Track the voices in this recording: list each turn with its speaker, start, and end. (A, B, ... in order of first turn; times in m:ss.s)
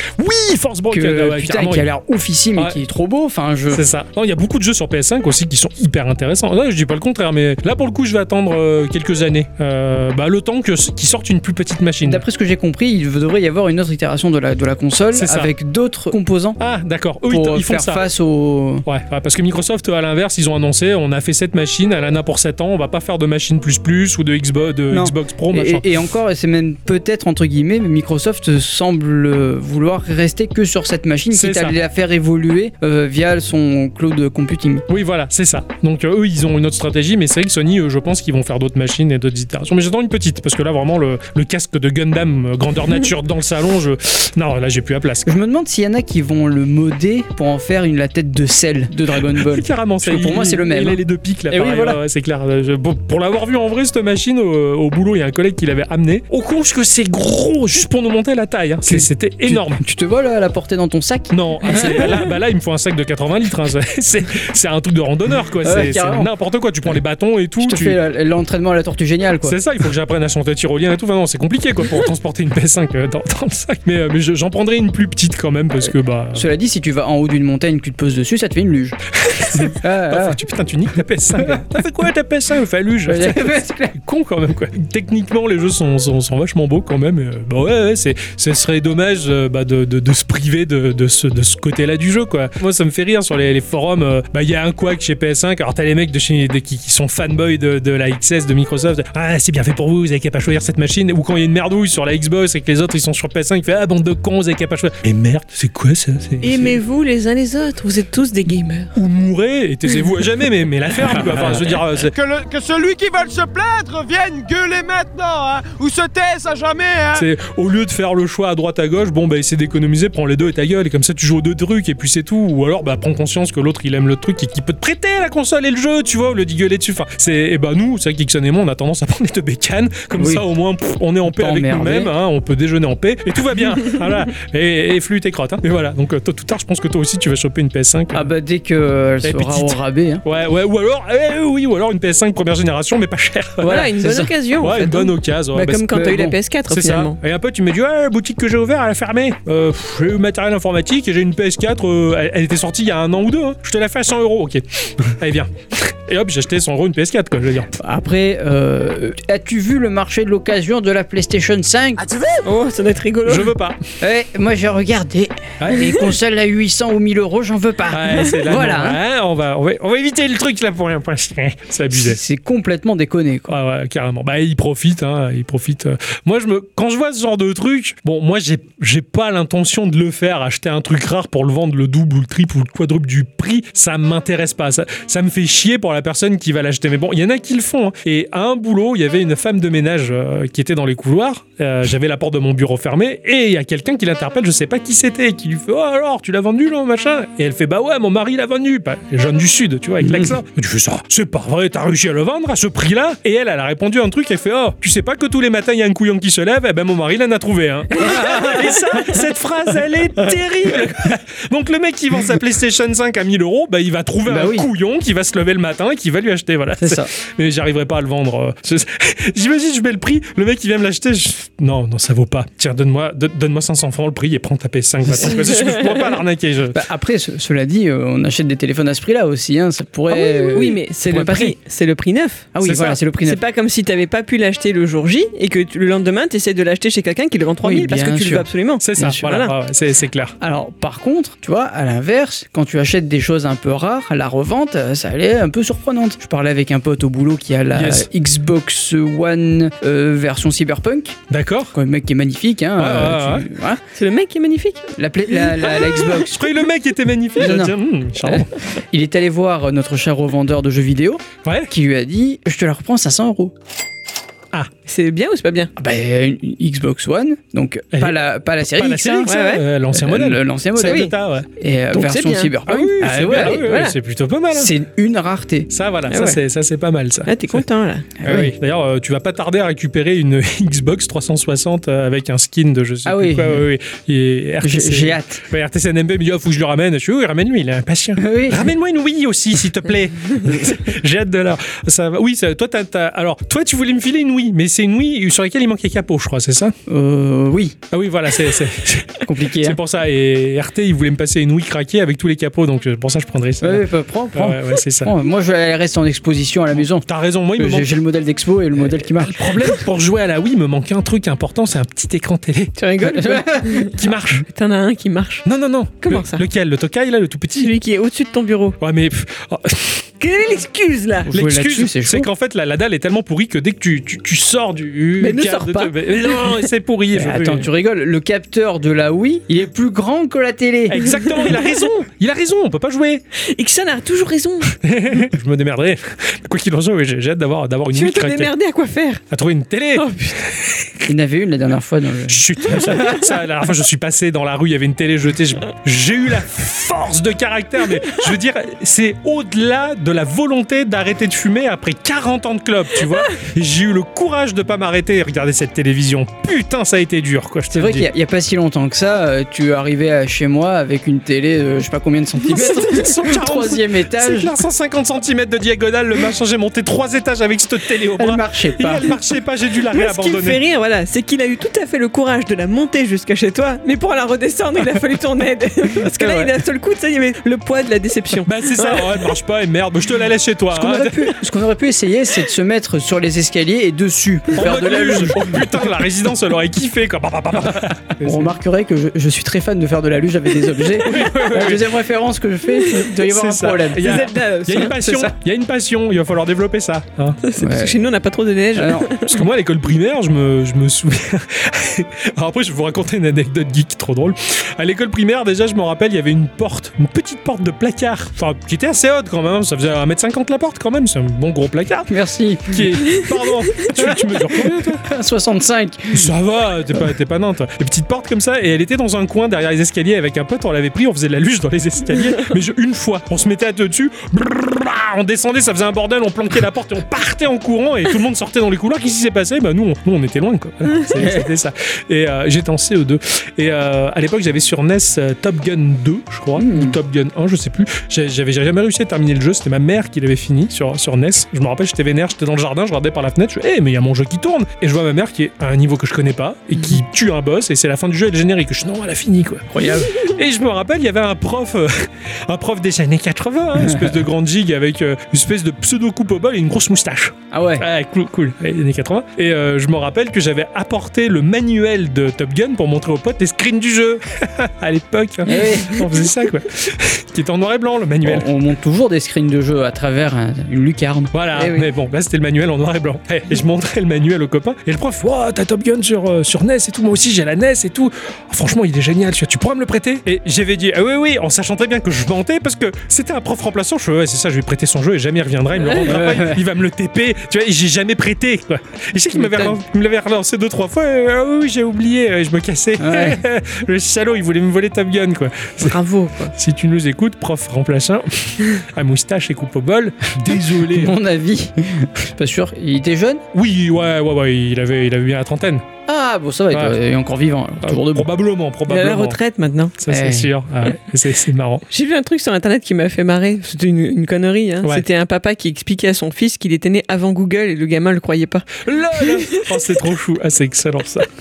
0:00.2-0:01.9 A
0:00.9-0:03.8 B
0:03.7-0:12.2 A
0:12.0-0:16.6 B
0:15.1-0:15.5 A
0:16.6-0:18.0 A
0:17.3-0:18.8 B
0:18.9-0:25.9 A
0:24.9-0:34.8 B
0:31.3-0:31.8 A
0:34.9-0:45.3 A
0:45.3-0:52.0 B
0:49.2-0:59.8 A
0:58.9-1:02.3 B
1:01.3-1:08.0 A
1:05.6-1:06.3 B
1:07.6-1:09.6 B
1:09.4-1:16.5 A
1:16.3-1:19.0 B
1:19.2-1:46.8 A
1:19.5-1:20.4 B
1:23.1-1:24.0 B
1:46.4-1:49.0 C
1:49.0-1:52.2 A
1:52.2-1:57.2 D
1:57.1-2:18.3 A
2:10.2-2:10.4 B
2:11.3-2:12.1 B
2:18.1-2:20.2 B
2:19.2-2:26.0 A
2:23.6-2:24.3 B
2:23.6-2:27.2 C
2:25.9-2:26.4 B
2:26.7-2:37.7 A
2:37.8-2:42.1 B
2:42.4-2:43.5 C
2:43.3-2:43.8 A
2:44.0-2:49.0 B
2:45.6-2:45.9 A
2:47.9-2:52.2 A
2:51.9-2:53.6 B
2:53.5-3:46.8 A
3:20.1-3:20.3 B
3:28.0-3:29.1 B
3:34.3-3:34.7 B
3:36.8-3:37.1 B
3:45.1-3:45.5 B
3:46.7-3:51.5 B
3:50.1-3:52.6 C
3:51.1-3:51.5 A
3:52.6-3:53.4 B
3:52.6-3:53.0 A
3:53.2-3:59.5 C
3:57.6-3:59.3 B
3:58.8-4:00.3 A
4:00.4-4:11.2 B
4:07.7-4:08.1 A
4:11.3-4:11.8 A
4:11.7-4:13.8 B
4:12.8-4:13.5 A
4:14.0-4:14.9 C
4:15.0-4:16.5 B
4:15.6-4:18.5 A
4:17.4-4:23.5 B
4:21.4-4:21.7 A
4:24.9-4:25.7 C
4:25.8-4:29.3 B
4:27.9-4:31.5 A
4:29.3-4:29.6 C
4:29.9-4:33.7 B
4:30.8-4:31.1 C
4:31.9-4:32.5 C
4:32.7-4:34.7 A
4:33.3-4:33.9 C
4:34.5-4:35.7 B
4:35.7-4:37.6 A
4:36.1-4:36.4 C
4:37.3-4:38.1 C
4:38.2-4:38.5 B
4:38.2-4:56.7 A
4:43.1-4:43.6 B
4:44.6-4:45.4 B
4:48.2-4:48.7 B
4:56.9-4:57.8 B
4:57.9-5:05.1 A
4:59.2-4:59.8 B
5:03.6-5:09.4 B
5:06.7-5:07.9 A
5:08.8-5:12.7 A
5:12.8-5:13.9 C
5:13.0-5:13.9 B
5:13.9-5:14.4 A
5:14.5-5:15.5 C
5:15.5-5:17.7 A
5:16.0-5:16.4 C
5:17.6-5:18.8 C
5:18.8-5:20.1 A
5:20.2-5:21.3 C
5:21.3-5:22.3 B
5:21.3-5:27.7 A
5:25.2-5:26.7 C
5:27.1-5:31.0 B
5:30.9-5:33.2 A
5:31.1-5:31.5 C
5:33.5-5:34.8 C
5:34.8-5:38.5 A
5:37.9-5:39.2 C
5:39.3-5:40.4 A
5:40.0-5:40.5 C
5:41.1-5:43.0 B
5:42.3-5:58.1 A
5:57.7-6:04.5 B
6:02.4-6:10.6 A
6:08.2-6:09.2 B
6:09.9-6:19.1 C
6:16.0-6:16.5 B
6:18.4-6:21.4 A
6:20.7-6:25.8 B
6:24.6-6:28.6 A
6:28.2-6:35.3 B
6:31.0-6:31.9 A
6:33.2-6:37.4 A
6:34.0-6:35.0 C
6:37.4-6:39.3 C
6:37.6-6:38.0 B
6:38.8-6:39.2 B
6:39.3-6:52.1 A
6:52.1-6:56.3 B
6:52.7-6:55.0 A
6:56.1-7:48.5 A
7:11.2-7:11.5 B
7:16.6-7:17.0 B
7:29.7-7:30.3 B
7:33.8-7:34.1 B
7:37.5-7:37.9 B
7:45.5-7:46.0 B
7:48.2-7:51.3 B
7:51.3-8:16.0 A
7:51.6-7:51.9 C
8:06.0-8:06.6 B
8:13.0-8:13.4 B
8:15.8-8:16.5 C
8:16.5-8:21.1 A
8:20.6-8:23.4 B
8:23.5-8:25.9 A
8:26.1-8:28.3 B
8:26.7-8:27.0 A
8:27.8-8:29.4 A
8:28.9-8:29.9 C
8:30.0-8:31.8 A
8:30.1-8:30.5 B
8:31.9-8:39.8 C
8:38.8-8:41.3 A